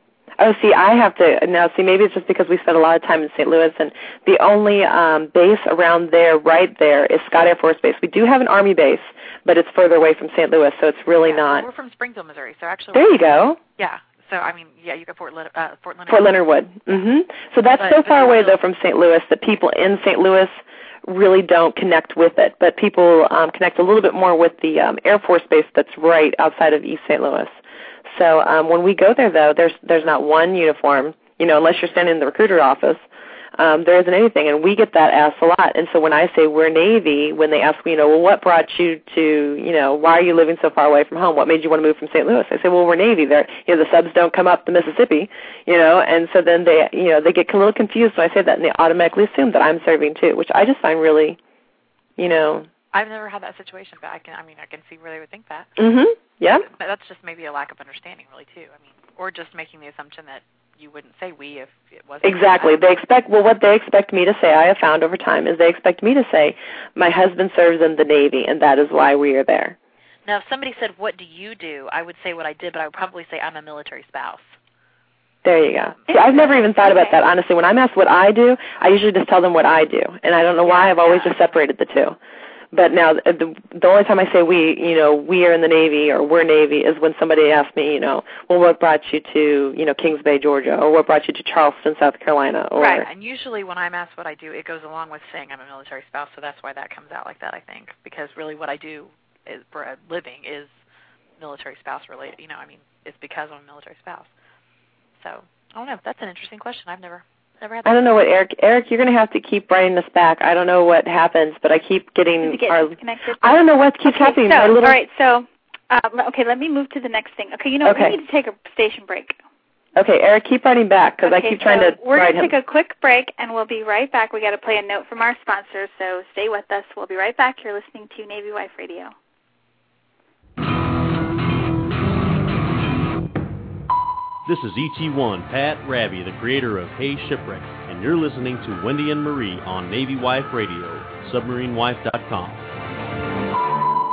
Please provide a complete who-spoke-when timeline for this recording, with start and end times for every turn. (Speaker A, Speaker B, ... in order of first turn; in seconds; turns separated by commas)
Speaker A: 0.4-11.7, Speaker B: 11.2-16.4, Speaker A: 12.9-13.6, Speaker A: 16.1-27.5, Speaker B: 17.8-18.6, Speaker A: 28.1-33.0, Speaker A: 33.5-51.4, Speaker A: 52.2-52.7, Speaker B: 52.9-55.7, Speaker A: 55.8-56.7, Speaker B: 56.6-62.9, Speaker A: 62.2-69.8, Speaker B: 70.2-74.5, Speaker A: 75.4-82.2, Speaker C: 76.1-77.2, Speaker B: 80.6-81.3, Speaker A: 82.7-93.1, Speaker C: 92.8-93.0, Speaker B: 93.0-100.7, Speaker B: 101.4-104.3, Speaker B: 105.2-108.1, Speaker A: 107.8-115.0, Speaker C: 112.4-119.4, Speaker A: 117.8-118.2, Speaker A: 120.0-122.5, Speaker C: 121.2-129.1, Speaker D: 134.4-142.6